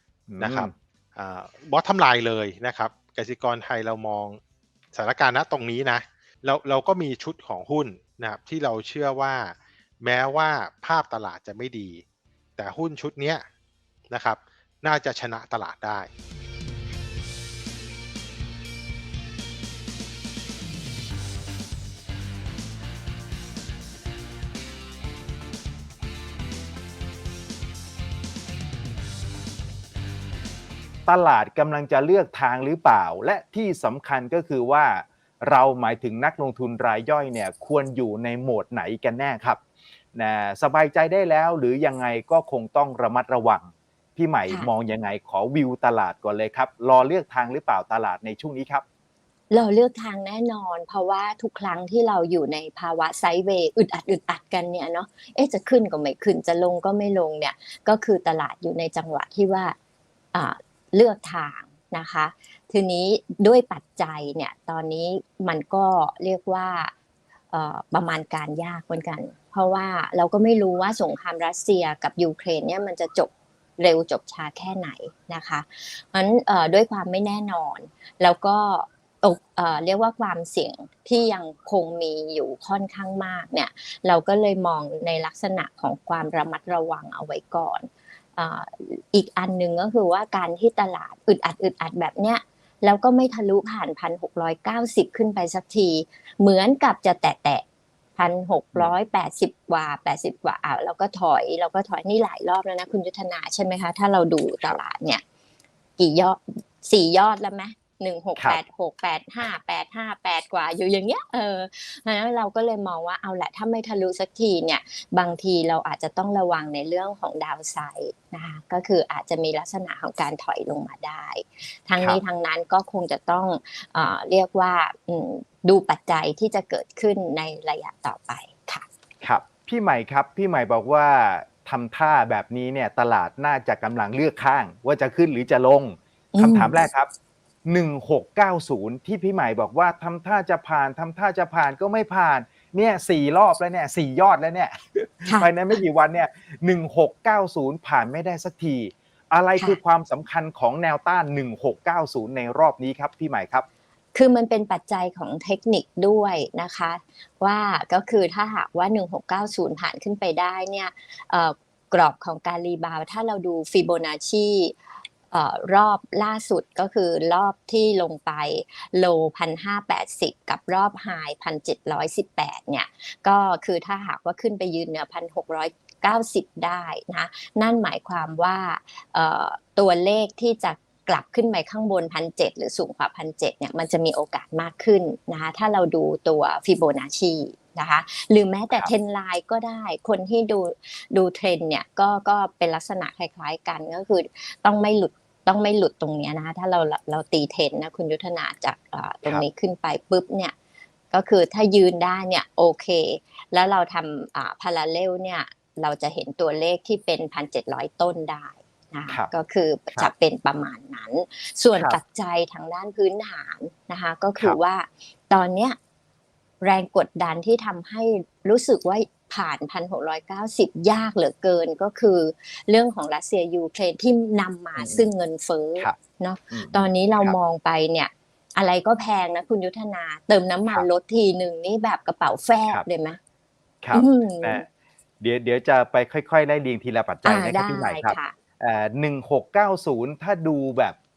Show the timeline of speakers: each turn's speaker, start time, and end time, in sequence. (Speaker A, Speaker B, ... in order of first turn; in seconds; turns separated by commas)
Speaker A: 0.3-0.7, Speaker B: 0.4-4.4, Speaker B: 4.9-12.0, Speaker B: 12.6-13.4, Speaker B: 14.1-16.1, Speaker A: 31.1-39.6, Speaker A: 40.1-48.8, Speaker C: 49.5-59.8, Speaker C: 60.3-66.9, Speaker C: 67.5-97.6, Speaker C: 98.2-105.2, Speaker C: 106.0-128.9, Speaker A: 129.2-137.1, Speaker C: 136.3-136.8, Speaker A: 137.7-153.7, Speaker C: 145.3-145.5, Speaker C: 154.1-164.8, Speaker C: 165.3-200.5, Speaker C: 201.1-215.8, Speaker C: 216.6-233.2, Speaker A: 224.8-225.1, Speaker A: 226.5-227.4, Speaker A: 233.8-234.7, Speaker C: 233.9-234.7, Speaker A: 235.2-241.0, Speaker C: 237.2-238.3